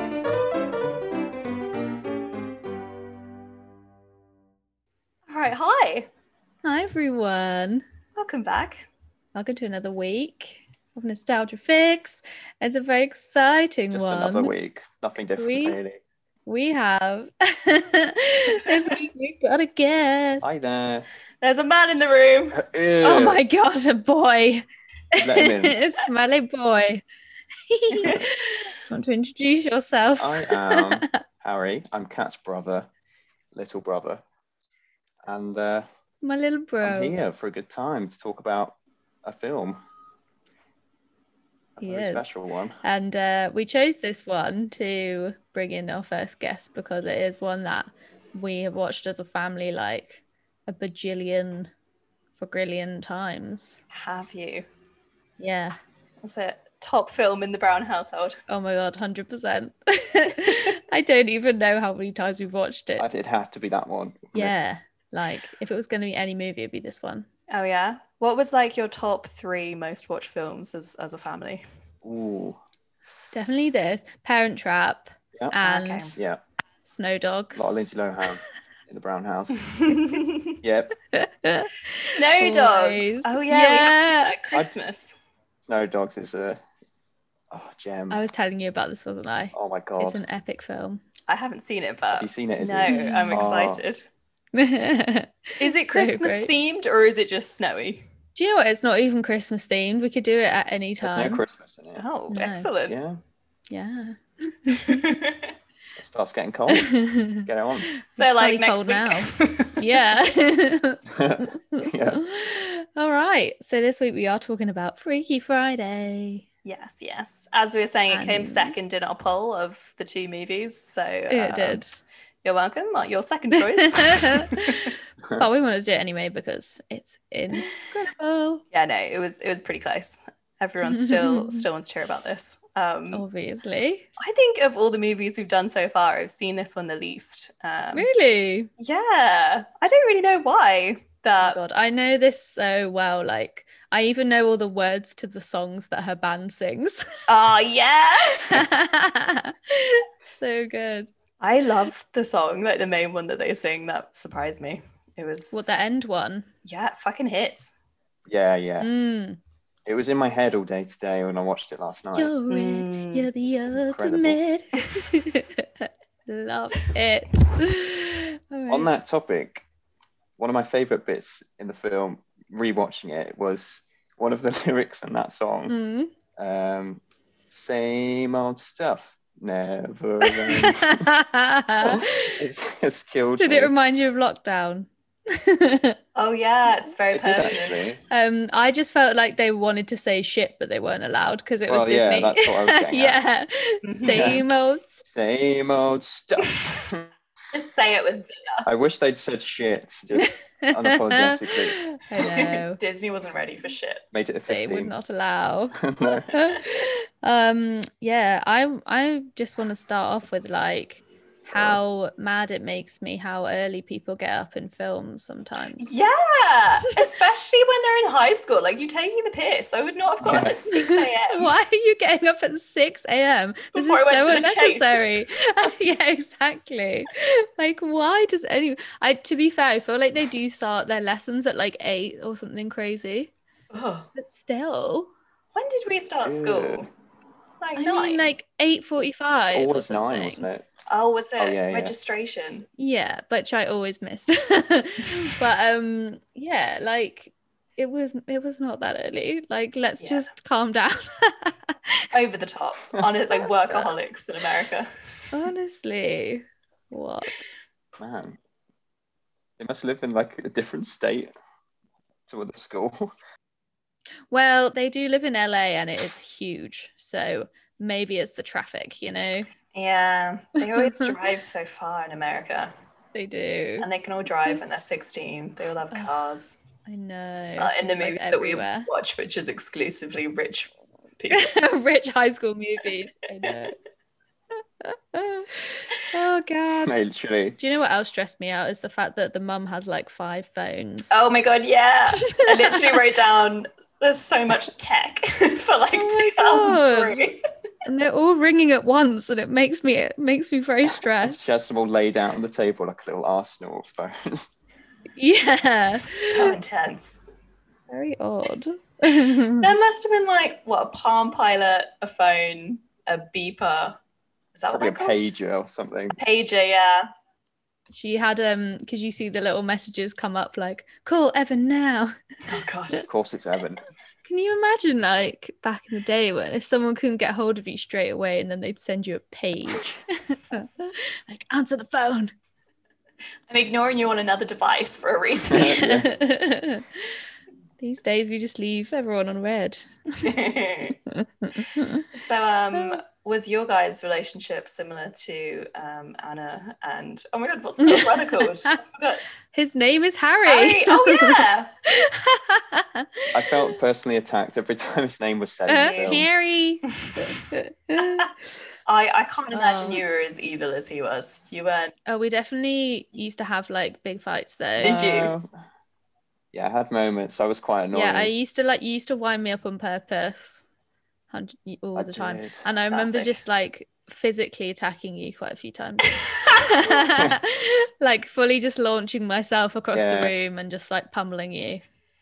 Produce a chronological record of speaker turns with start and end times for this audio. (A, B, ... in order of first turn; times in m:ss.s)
0:05.3-0:06.1 A
0:06.6-0:07.8 B
0:08.1-0:08.9 A
0:09.4-0:14.5 B
0:13.9-0:16.0 C
0:15.3-0:15.8 B
0:16.4-0:20.5 B
0:20.4-0:21.1 C
0:21.4-0:22.8 A
0:22.5-0:23.4 C
0:23.0-0:27.0 B
0:25.2-0:25.8 C
0:27.7-0:31.2 B
0:27.9-0:28.3 A
0:30.2-0:32.9 C
0:33.5-0:34.2 C
0:35.2-0:35.8 C
0:36.2-0:37.2 B
0:36.8-0:39.8 C
0:41.8-0:42.8 C
0:41.8-0:51.7 B
0:52.4-0:53.8 B
0:53.9-0:54.7 A
0:55.4-0:55.8 B
0:56.2-0:58.4 A
0:58.5-1:03.0 B
1:03.0-1:04.5 C
1:04.3-1:07.3 B
1:07.5-1:11.6 A
1:12.0-1:12.6 C
1:13.3-1:16.1 B
1:15.6-1:16.1 A
1:16.1-1:16.4 C
1:16.8-1:17.9 B
1:17.6-1:20.0 C
1:19.7-1:20.6 A
1:20.6-1:20.9 C
1:21.1-1:24.3 B
1:21.9-1:25.1 A
1:25.6-1:26.6 C
1:27.5-1:28.2 C
1:28.1-1:31.0 B
1:29.5-1:30.2 C
1:31.3-1:34.0 A
1:32.1-1:33.8 C
1:32.9-1:33.4 B
1:34.5-1:36.5 B
1:35.6-1:38.0 A
1:38.3-1:41.4 B
1:41.0-1:42.0 C
1:42.0-1:43.0 A
1:42.3-1:42.7 B
1:42.9-1:43.2 C
1:43.7-1:45.0 B
1:44.7-1:45.5 A
1:46.0-1:46.9 C
1:46.7-1:56.4 B
1:47.4-1:47.9 C
1:48.1-1:50.0 A
1:51.1-1:52.2 C
1:56.6-2:01.8 A
1:58.1-1:58.8 B
2:01.3-2:02.0 B
2:02.4-2:04.9 A
2:03.8-2:08.6 B
2:08.7-2:13.2 A
2:10.8-2:11.7 B
2:13.1-2:14.1 B
2:14.2-2:18.1 A
2:17.9-2:18.7 B
2:18.8-2:21.6 A
2:21.4-2:27.1 B
2:27.3-2:28.5 A
2:28.4-2:31.1 B
2:31.4-2:35.7 A
2:35.5-2:36.5 B
2:36.6-2:37.7 A
2:38.3-2:38.9 C
2:38.8-2:39.4 B
2:39.8-2:42.3 C
2:42.1-2:48.9 B
2:42.5-2:43.3 A
2:43.5-2:44.4 C
2:48.7-2:49.6 C
2:50.4-2:55.7 C
2:55.7-2:56.1 B
2:56.4-3:01.1 C
3:00.3-3:02.3 B
3:01.8-3:03.7 C
3:03.4-3:06.0 B
3:06.2-3:07.9 A
3:07.1-3:08.0 C
3:08.1-3:15.1 B
3:11.7-3:13.2 C
3:13.8-3:14.4 A
3:14.1-3:14.4 C
3:15.1-3:17.1 C
3:17.5-3:18.7 A
3:18.6-3:21.8 C
3:20.2-3:22.8 B
3:22.2-3:24.0 A
3:24.1-3:24.9 C
3:24.5-3:25.8 B
3:25.8-3:26.3 C
3:26.1-3:26.6 A
3:26.3-3:35.9 B
3:35.8-3:41.5 A
3:40.2-3:40.6 C
3:40.7-3:53.3 B
3:43.7-3:45.3 A
3:53.7-3:54.1 A
3:54.2-3:55.1 B
3:55.5-3:56.9 A
3:56.2-3:56.9 C
3:57.6-3:58.3 A
3:57.8-4:00.5 B
3:59.5-4:00.7 C
4:00.9-4:02.7 A
4:01.4-4:01.9 C
4:02.8-4:12.0 B
4:10.0-4:10.3 A
4:12.1-4:14.9 A
4:13.6-4:13.9 B
4:15.3-4:17.6 B
4:18.0-4:18.4 C
4:19.6-4:21.3 C
4:22.3-4:23.1 C
4:24.3-4:29.5 B
4:29.7-4:32.7 A
4:30.8-4:31.1 B
4:33.1-4:33.9 B
4:33.8-4:36.6 A
4:36.9-4:38.9 B
4:37.6-4:41.5 A
4:41.3-4:43.8 B
4:44.8-4:47.0 B
4:46.8-4:47.6 C
4:47.6-4:51.1 B
4:51.1-4:57.4 A
4:52.3-4:52.9 B
4:55.9-4:57.3 B
4:57.9-5:01.5 B
5:01.2-5:04.5 C
5:05.2-5:06.6 B
5:06.1-5:07.2 A
5:07.9-5:09.7 B
5:09.6-5:14.0 A
5:14.6-5:15.3 A
5:14.7-5:16.2 C
5:16.2-5:17.1 A
5:17.9-5:22.1 B
5:22.5-5:23.1 A
5:23.0-5:23.8 C
5:24.2-5:32.3 B
5:33.5-5:36.0 A
5:35.5-5:36.1 C
5:35.6-5:37.1 B
5:37.8-5:40.3 B
5:40.2-5:41.0 A
5:41.1-5:42.1 B
5:42.1-5:49.2 A
5:42.7-5:43.0 B
5:47.8-5:48.7 B
5:49.5-5:53.7 B
5:50.4-5:51.7 A
5:53.3-5:56.3 C
5:55.7-5:58.3 B
5:55.7-5:56.2 A
5:56.9-5:57.4 A
5:58.0-5:58.3 A
5:58.9-6:01.9 A
5:59.5-6:00.0 B
6:02.1-6:05.0 B
6:04.8-6:05.3 A
6:04.8-6:05.5 C
6:06.5-6:08.3 C
6:07.9-6:10.6 B
6:11.3-6:21.8 B
6:12.0-6:12.6 C
6:12.9-6:13.4 A
6:19.9-6:20.3 C